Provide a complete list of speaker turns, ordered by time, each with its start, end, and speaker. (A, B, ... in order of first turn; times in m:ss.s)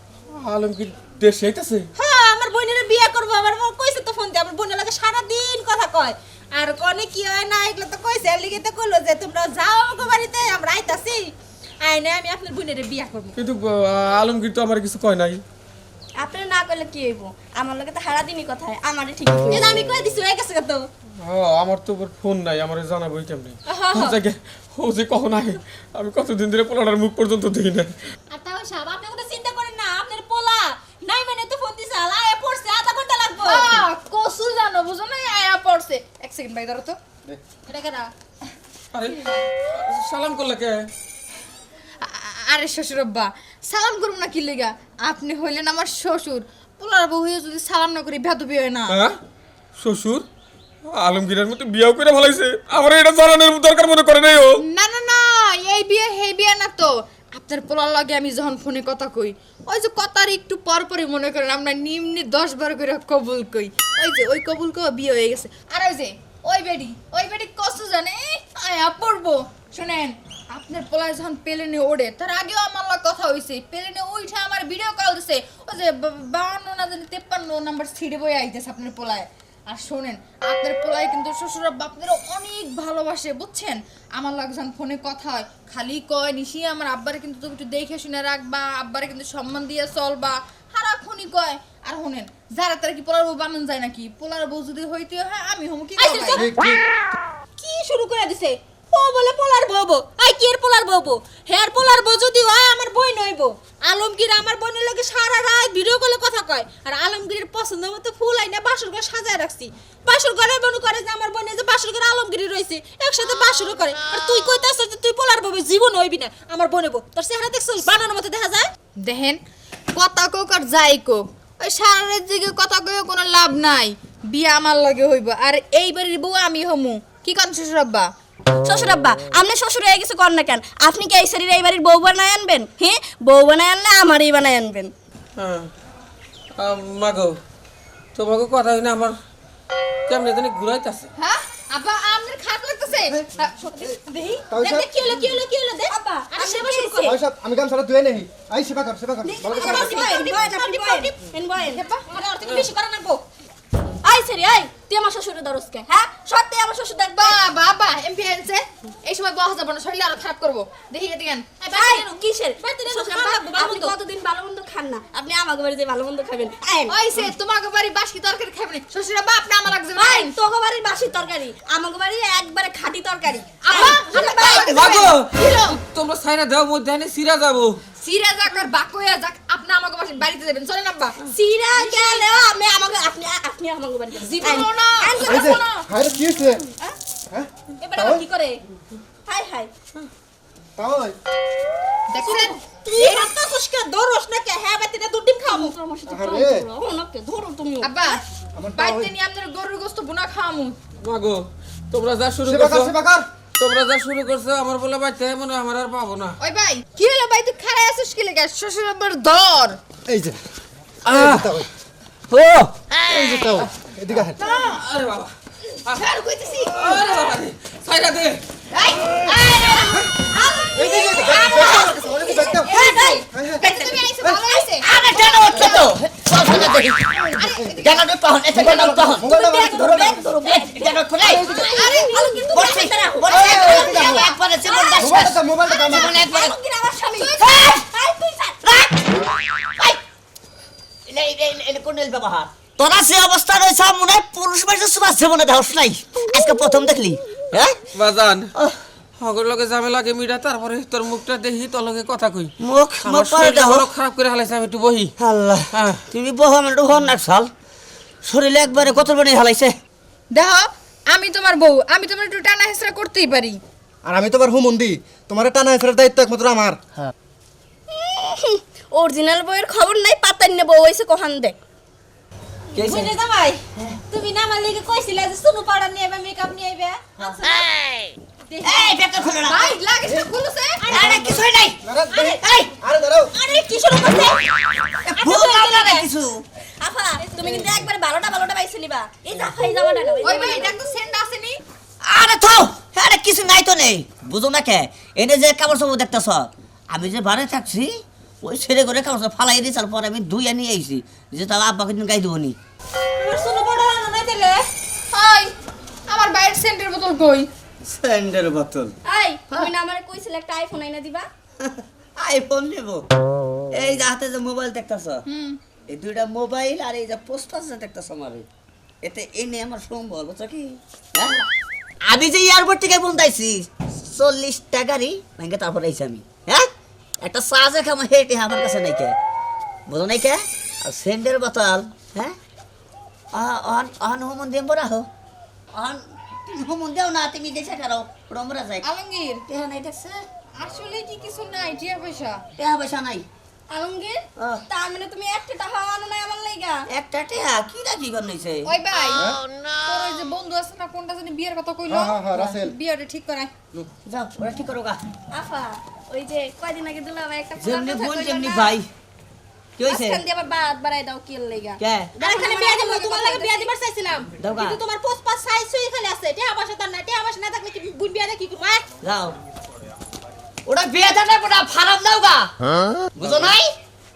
0:00.3-0:01.9 A
0:02.0-0:13.4 B
0:13.4-0:15.4 A
0:16.2-0:19.6 C
0:19.5-0:20.9 B
0:21.2-0:28.0 A
0:23.7-0:24.2 B
0:28.3-0:33.9 B
0:33.4-0:37.0 D
0:37.7-0:38.1 B
0:38.9-0:40.9 A
0:42.0-0:49.0 D
0:48.9-0:49.2 A
0:49.8-0:50.2 A
0:50.9-0:54.6 A
0:54.6-1:36.4 D
1:36.0-1:36.5 B
1:36.4-1:36.8 E
1:37.6-1:58.7 B
1:59.0-1:59.4 D
2:00.0-2:08.1 D
2:08.6-2:14.9 C
2:15.4-2:15.7 A
2:16.6-2:17.4 A
2:18.2-2:19.2 A
2:20.1-2:21.1 A
2:21.2-2:24.4 D
2:24.5-2:25.0 E
2:24.6-2:27.2 B
2:25.9-2:27.0 C
2:27.0-2:30.0 E
2:29.4-2:31.2 B
2:29.4-2:31.8 C
2:31.7-2:33.2 B
2:31.7-2:32.1 D
2:34.0-2:37.3 C
2:37.2-2:41.6 D
2:41.6-2:44.0 B
2:41.8-2:46.9 C
2:46.9-2:50.4 D
2:50.0-2:54.6 C
2:53.6-2:55.8 D
2:54.4-2:57.8 A
2:58.0-3:02.2 D
3:01.4-3:05.6 C
3:04.2-3:05.8 D
3:05.2-3:06.7 E
3:07.3-3:08.2 E
3:07.8-3:08.6 B
3:09.3-3:09.7 C
3:10.8-3:11.2 E
3:12.1-3:13.3 D
3:12.9-3:15.8 B
3:15.5-3:17.9 C
3:16.0-3:16.7 E
3:17.8-3:18.2 D
3:18.5-3:19.1 E
3:18.8-3:20.8 D
3:21.0-3:23.0 A
3:22.4-3:23.3 E
3:23.6-3:26.4 A
3:26.4-3:29.8 D
3:30.1-3:30.4 E
3:31.0-3:31.7 E
3:31.1-3:31.5 A
3:32.4-3:32.7 F
3:33.1-3:34.4 E
3:34.4-3:34.8 D
3:34.6-3:35.3 A
3:36.0-3:36.7 F
3:36.7-3:38.4 A
3:38.8-3:40.0 F
3:40.7-3:42.8 E
3:40.9-3:42.0 B
3:40.9-3:42.5 D
3:42.7-3:44.0 F
3:42.8-3:43.2 B
3:43.3-3:43.7 E
3:43.6-3:44.8 D
3:44.8-3:51.5 F
3:45.5-3:45.8 E
3:46.6-3:50.4 E
3:47.4-3:47.8 D
3:50.0-3:50.9 C
3:51.2-3:51.9 E
3:51.7-3:52.5 D
3:52.0-3:53.4 C
3:52.5-3:56.6 F
3:53.3-3:54.4 E
3:53.5-3:53.8 D
3:55.0-3:56.2 E
3:56.2-3:58.6 C
3:57.2-3:57.9 F
3:58.6-4:00.0 F
4:01.1-4:07.8 F
4:08.0-4:08.5 A
4:09.2-4:15.1 A
4:12.6-4:13.9 F
4:15.2-4:17.5 F
4:15.7-4:16.0 A
4:18.2-4:19.8 F
4:20.3-4:23.6 D
4:24.0-4:26.8 E
4:27.9-4:31.6 C
4:32.8-4:33.1 F
4:32.8-4:37.7 B
4:38.5-4:39.0 B
4:38.6-4:39.8 F
4:39.4-4:40.8 D
4:40.8-4:41.5 B
4:40.9-4:41.8 F
4:41.8-4:43.3 E
4:42.1-4:42.7 B
4:43.3-4:46.1 B
4:45.0-4:46.4 F
4:46.8-4:50.6 C
4:47.2-4:47.7 B
4:50.2-4:51.6 D
4:52.0-4:57.9 F
4:58.4-5:02.6 F
5:03.2-5:04.6 B
5:05.1-5:05.5 D
5:06.1-5:07.5 D
5:07.8-5:09.0 F
5:09.1-5:11.3 C
5:11.6-5:13.1 F
5:13.7-5:15.2 F
5:15.3-5:15.6 D
5:15.9-5:18.4 F
5:19.0-5:21.4 F
5:22.1-5:26.7 F
5:27.2-5:29.2 F
5:29.9-5:32.4 F
5:33.3-5:35.1 F
5:35.7-5:38.9 F
5:38.8-5:39.4 D
5:39.5-5:40.2 F
5:40.6-5:42.4 D
5:42.6-5:43.3 F
5:43.7-5:46.8 C
5:44.4-5:44.6 F
5:46.9-5:48.7 F
5:48.7-5:53.5 D
5:51.9-5:52.7 E
5:54.1-5:55.0 F
5:55.3-5:58.7 C
5:57.6-5:58.9 F
5:59.8-6:00.2 F
5:59.9-6:03.7 C
6:01.8-6:02.1 F
6:02.2-6:08.8 B
6:04.4-6:04.8 F
6:09.0-6:09.4 F
6:10.7-6:12.5 F
6:13.2-6:13.8 F
6:13.2-6:13.6 A